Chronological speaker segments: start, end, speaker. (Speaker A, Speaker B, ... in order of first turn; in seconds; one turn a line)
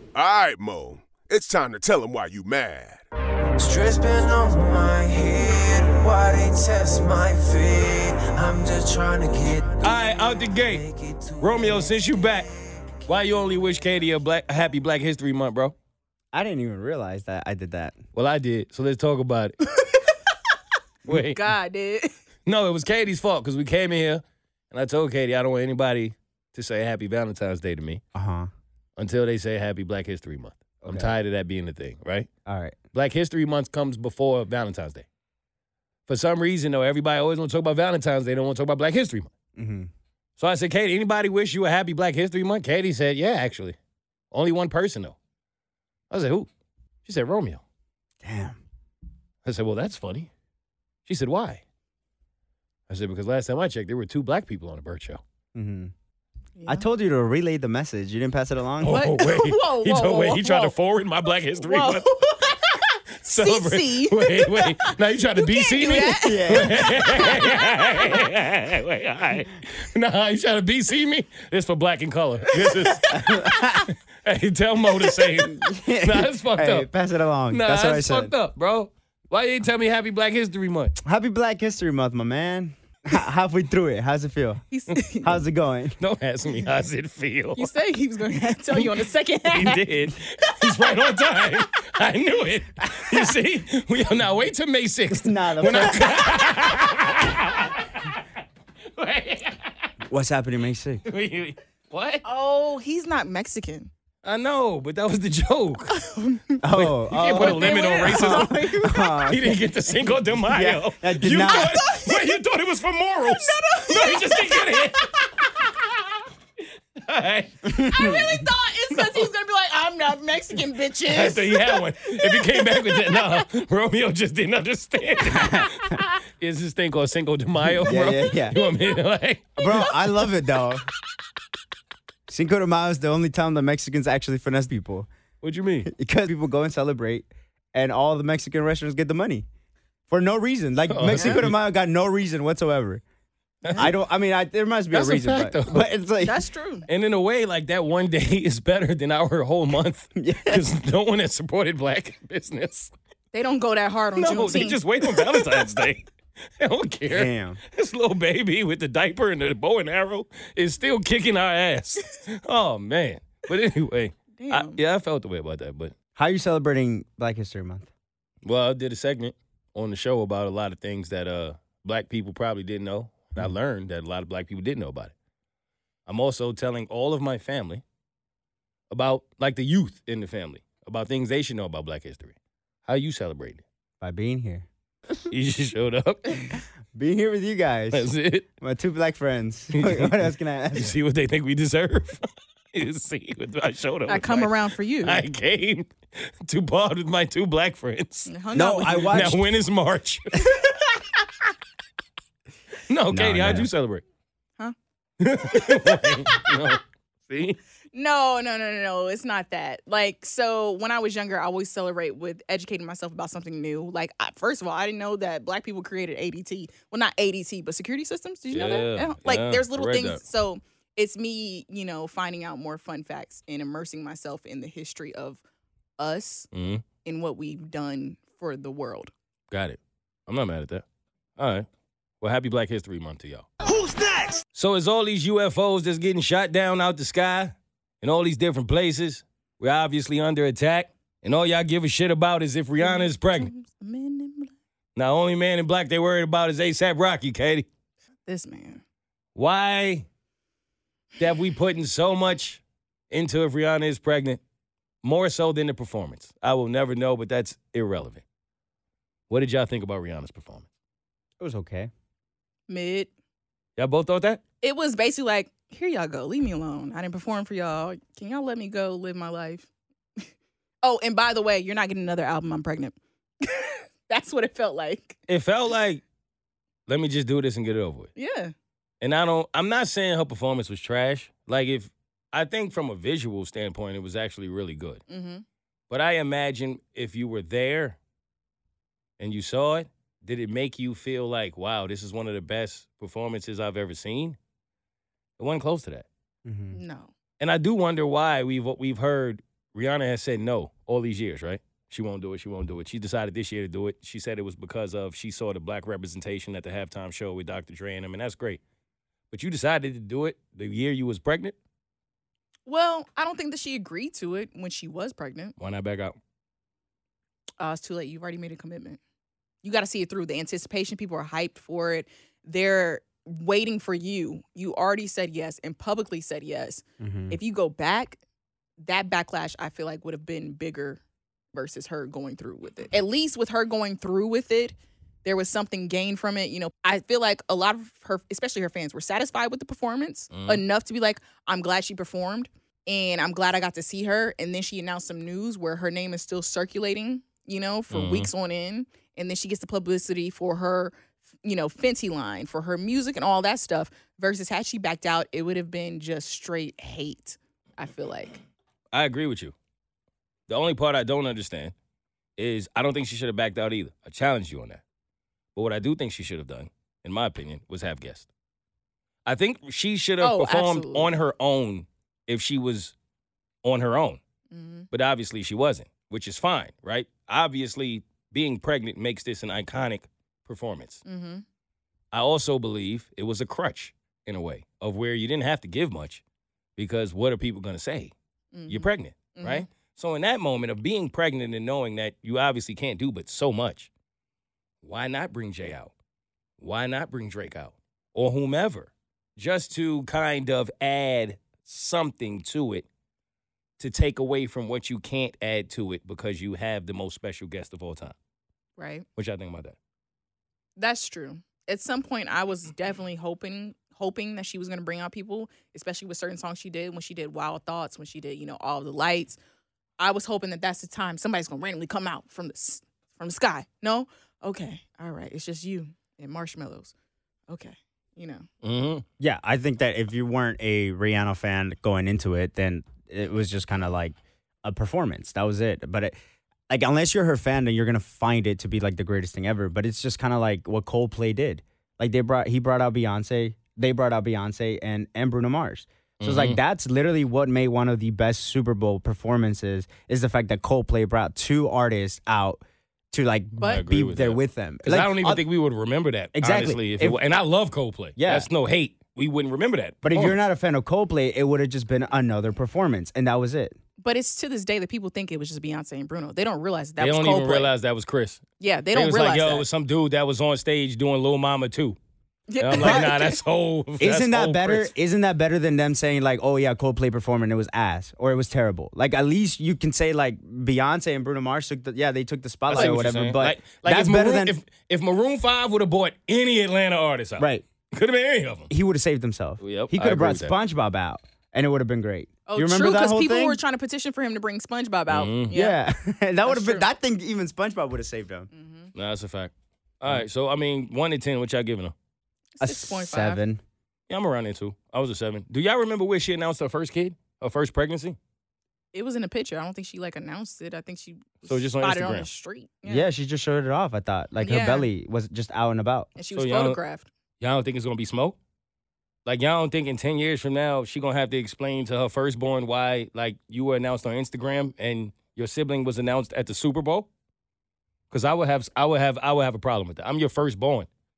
Speaker A: 0.1-3.0
Speaker B: 3.6-9.9
Speaker C: 9.8-10.8
Speaker B: 10.8-11.6
Speaker C: 11.4-12.5
Speaker C: 13.0-15.7
Speaker D: 16.3-18.0
Speaker C: 18.1-19.6
Speaker C: 21.1-21.5
Speaker E: 21.1-22.1
Speaker C: 22.4-28.0
Speaker D: 28.1-28.5
Speaker C: 29.0-32.3
Speaker D: 30.8-31.1
Speaker D: 32.5-32.8
Speaker C: 32.9-35.0
Speaker C: 36.1-39.3
Speaker D: 39.5-39.9
Speaker C: 40.4-43.8
Speaker C: 44.3-45.1
Speaker C: 46.1-46.5
Speaker C: 47.0-47.6
Speaker D: 48.2-48.6
Speaker C: 49.4-50.3
Speaker C: 51.0-51.6
Speaker C: 52.9-55.2
Speaker D: 55.5-55.9
Speaker E: 56.6-56.9
Speaker D: 56.7-59.1
Speaker C: 58.8-62.1
Speaker E: 58.8-60.7
Speaker E: 61.6-68.2
Speaker C: 63.2-73.6
Speaker D: 66.2-67.2
Speaker E: 72.6-73.8
Speaker D: 73.1-73.8
Speaker C: 74.2-76.9
Speaker D: 75.4-78.3
Speaker C: 77.5-81.0
Speaker D: 81.0-84.6
Speaker E: 84.7-85.3
Speaker D: 85.2-86.0
Speaker C: 86.0-87.7
Speaker E: 87.6-89.9
Speaker C: 88.7-98.2
Speaker E: 90.5-90.8
Speaker D: 95.1-96.5
Speaker C: 99.0-99.9
Speaker D: 100.1-101.0
Speaker C: 101.0-102.2
Speaker E: 102.2-103.9
Speaker C: 104.2-105.9
Speaker E: 105.9-106.6
Speaker D: 106.6-109.6
Speaker C: 106.7-115.2
Speaker E: 107.2-109.1
Speaker D: 110.3-111.8
Speaker E: 111.5-112.3
Speaker E: 113.2-115.7
Speaker C: 117.0-117.8
Speaker E: 117.7-123.5
Speaker D: 117.8-118.2
Speaker C: 118.9-119.3
Speaker C: 121.1-129.6
Speaker D: 125.3-125.7
Speaker D: 127.7-128.6
Speaker D: 129.6-130.8
Speaker E: 129.6-129.9
Speaker D: 132.3-135.1
Speaker C: 135.4-135.9
Speaker D: 135.8-139.4
Speaker D: 140.1-143.0
Speaker C: 140.9-141.6
Speaker C: 143.6-143.9
Speaker D: 143.8-146.4
Speaker C: 144.9-145.9
Speaker E: 146.2-146.9
Speaker C: 146.9-152.9
Speaker D: 150.2-150.6
Speaker E: 153.3-155.6
Speaker C: 154.2-156.1
Speaker C: 156.6-165.9
Speaker D: 157.1-157.6
Speaker E: 164.4-164.8
Speaker D: 166.2-167.9
Speaker C: 168.4-175.1
Speaker C: 176.1-177.8
Speaker C: 178.9-182.3
Speaker C: 182.8-183.6
Speaker D: 184.0-184.7
Speaker C: 185.3-186.6
Speaker D: 186.9-188.1
Speaker C: 187.9-188.4
Speaker D: 188.6-190.9
Speaker C: 189.7-190.2
Speaker C: 190.7-198.3
Speaker E: 194.1-195.2
Speaker E: 198.3-199.3
Speaker D: 198.5-199.4
Speaker C: 198.9-200.4
Speaker C: 202.9-204.0
Speaker D: 203.1-203.7
Speaker C: 205.2-207.6
Speaker E: 205.5-206.5
Speaker E: 207.9-225.4
Speaker C: 218.5-220.2
Speaker E: 226.0-226.5
Speaker C: 226.5-226.8
Speaker E: 227.0-229.1
Speaker C: 229.5-230.8
Speaker C: 231.4-231.7
Speaker C: 232.2-233.5
Speaker B: 233.8-234.4
Speaker C: 234.5-243.5
Speaker E: 242.8-244.5
Speaker C: 244.9-247.7
Speaker E: 248.2-248.8
Speaker C: 249.3-250.1
Speaker C: 251.2-254.4
Speaker C: 255.0-258.2
Speaker C: 259.3-260.6
Speaker D: 261.4-261.9
Speaker E: 262.7-263.1
Speaker C: 263.8-264.4
Speaker E: 264.6-270.3
Speaker E: 270.8-275.2
Speaker C: 275.3-276.0
Speaker C: 276.9-278.1
Speaker E: 278.1-278.5
Speaker C: 279.0-285.0
Speaker E: 285.1-285.4
Speaker C: 285.9-288.0
Speaker C: 289.2-294.4
Speaker C: 295.4-296.1
Speaker D: 296.4-296.8
Speaker E: 296.7-297.1
Speaker C: 297.4-308.6
Speaker C: 309.3-311.5
Speaker E: 312.6-315.5
Speaker C: 315.6-316.1
Speaker E: 317.6-319.0
Speaker E: 319.6-328.2
Speaker D: 327.0-327.4
Speaker E: 328.8-331.0
Speaker E: 331.5-358.4
Speaker C: 340.3-340.6
Speaker C: 347.9-348.3
Speaker C: 358.9-359.5
Speaker C: 360.5-361.7
Speaker C: 362.4-364.8
Speaker C: 365.5-368.3
Speaker C: 369.2-372.9
Speaker E: 370.2-371.2
Speaker C: 373.6-374.2
Speaker E: 374.5-374.9
Speaker C: 374.9-381.0
Speaker E: 381.0-381.4
Speaker C: 382.1-386.2
Speaker C: 386.8-388.1
Speaker E: 388.5-389.7
Speaker C: 388.7-393.9
Speaker C: 394.8-395.9
Speaker C: 396.6-402.9
Speaker C: 403.8-408.1
Speaker E: 408.8-409.1
Speaker C: 409.2-409.8
Speaker E: 410.8-419.4
Speaker E: 420.0-426.9
Speaker E: 427.5-428.4
Speaker C: 428.6-429.0
Speaker D: 429.2-436.1
Speaker D: 436.7-455.4
Speaker C: 446.2-446.6
Speaker C: 453.6-460.4
Speaker D: 456.3-457.2
Speaker D: 458.2-458.5
Speaker D: 460.0-463.8
Speaker E: 464.0-467.7
Speaker C: 467.0-468.4
Speaker E: 468.6-469.6
Speaker C: 468.9-472.0
Speaker E: 472.5-473.4
Speaker C: 472.6-474.9
Speaker D: 472.8-473.1
Speaker D: 474.0-484.5
Speaker C: 482.7-488.7
Speaker D: 487.4-487.6
Speaker D: 488.7-493.6
Speaker C: 489.6-490.5
Speaker E: 492.5-495.8
Speaker C: 495.1-495.5
Speaker D: 495.5-498.5
Speaker E: 496.4-496.9
Speaker E: 498.5-498.9
Speaker C: 498.9-501.9
Speaker E: 502.6-503.4
Speaker D: 502.6-503.6
Speaker C: 504.1-508.2
Speaker E: 508.9-513.1
Speaker C: 511.4-512.3
Speaker D: 512.9-516.1
Speaker E: 514.4-514.9
Speaker E: 516.2-517.1
Speaker C: 516.3-516.8
Speaker C: 517.4-518.4
Speaker C: 519.2-527.1
Speaker C: 528.1-530.9